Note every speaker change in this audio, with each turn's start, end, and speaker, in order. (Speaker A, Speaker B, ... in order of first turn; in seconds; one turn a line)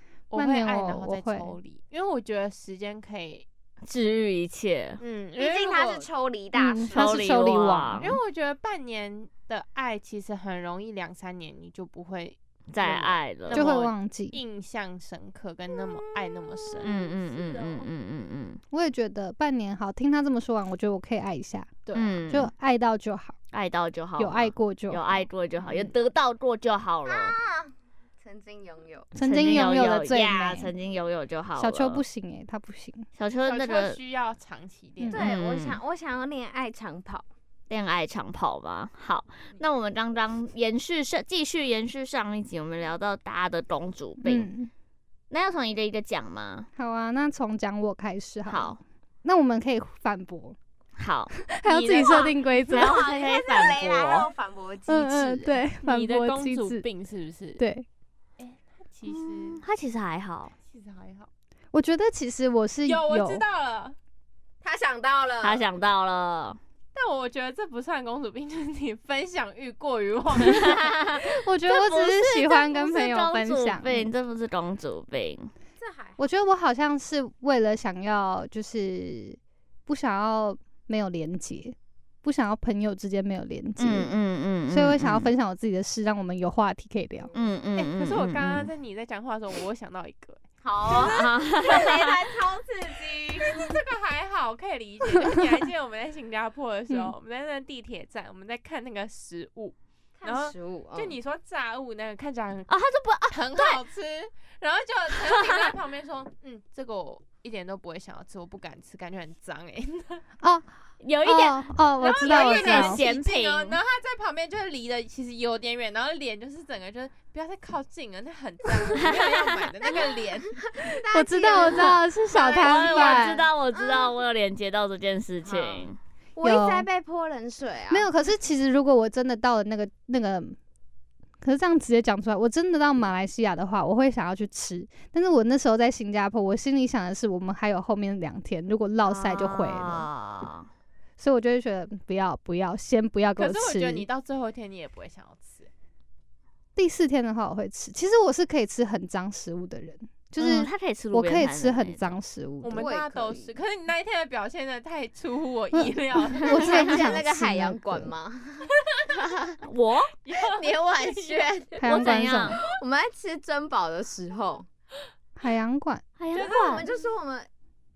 Speaker A: 0.3-3.5
Speaker B: 0.3-1.5
Speaker C: 3.9-5.0
Speaker A: 5.0-6.1
Speaker D: 5.4-7.0
Speaker B: 6.5-8.2
Speaker C: 6.9-8.1
Speaker A: 8.0-16.9
Speaker C: 12.7-13.7
Speaker B: 13.5-14.4
Speaker D: 16.1-17.9
Speaker C: 16.8-18.6
Speaker B: 18.7-23.4
Speaker A: 21.9-22.1
Speaker C: 21.9-22.5
Speaker C: 23.5-27.4
Speaker B: 24.2-25.1
Speaker D: 27.1-29.1
Speaker B: 29.1-30.7
Speaker C: 29.2-32.0
Speaker B: 31.6-33.1
Speaker C: 33.1-34.0
Speaker A: 33.4-35.2
Speaker D: 35.1-37.2
Speaker C: 35.1-35.8
Speaker C: 37.7-44.5
Speaker B: 44.2-44.7
Speaker C: 45.3-46.7
Speaker B: 46.8-50.6
Speaker C: 48.5-48.8
Speaker C: 51.0-51.3
Speaker B: 51.4-53.1
Speaker A: 51.6-52.4
Speaker D: 52.0-55.6
Speaker C: 52.7-54.3
Speaker B: 54.9-56.8
Speaker A: 55.8-57.6
Speaker B: 57.6-57.9
Speaker A: 58.4-59.6
Speaker C: 59.1-60.5
Speaker A: 60.6-61.3
Speaker B: 61.7-63.4
Speaker A: 62.9-64.0
Speaker D: 64.6-65.6
Speaker C: 65.4-66.6
Speaker A: 66.9-70.9
Speaker C: 70.5-75.5
Speaker B: 71.2-74.1
Speaker D: 75.8-76.2
Speaker B: 76.2-84.1
Speaker C: 83.8-85.3
Speaker B: 84.7-87.3
Speaker D: 87.2-87.6
Speaker C: 87.3-88.7
Speaker A: 87.8-102.7
Speaker D: 90.6-93.7
Speaker C: 90.9-92.2
Speaker D: 100.2-101.2
Speaker C: 102.7-103.8
Speaker A: 103.3-110.2
Speaker C: 105.2-105.6
Speaker B: 110.4-110.7
Speaker C: 111.0-113.8
Speaker B: 111.2-113.0
Speaker A: 112.0-120.8
Speaker C: 119.0-119.6
Speaker D: 120.5-124.2
Speaker B: 121.1-123.4
Speaker A: 121.7-123.2
Speaker C: 122.4-126.0
Speaker D: 125.4-128.1
Speaker B: 126.4-126.9
Speaker B: 127.9-130.6
Speaker B: 131.4-140.1
Speaker C: 139.0-140.7
Speaker B: 141.2-144.1
Speaker A: 143.4-145.7
Speaker B: 146.8-152.9
Speaker C: 150.4-152.1
Speaker A: 152.6-156.8
Speaker D: 152.7-153.5
Speaker B: 156.4-158.1
Speaker D: 156.4-159.6
Speaker C: 159.6-160.1
Speaker A: 160.2-161.5
Speaker D: 160.3-161.8
Speaker B: 161.8-162.6
Speaker C: 161.8-162.6
Speaker D: 162.6-164.7
Speaker B: 165.4-166.0
Speaker C: 166.2-166.8
Speaker A: 166.3-167.1
Speaker D: 166.3-167.5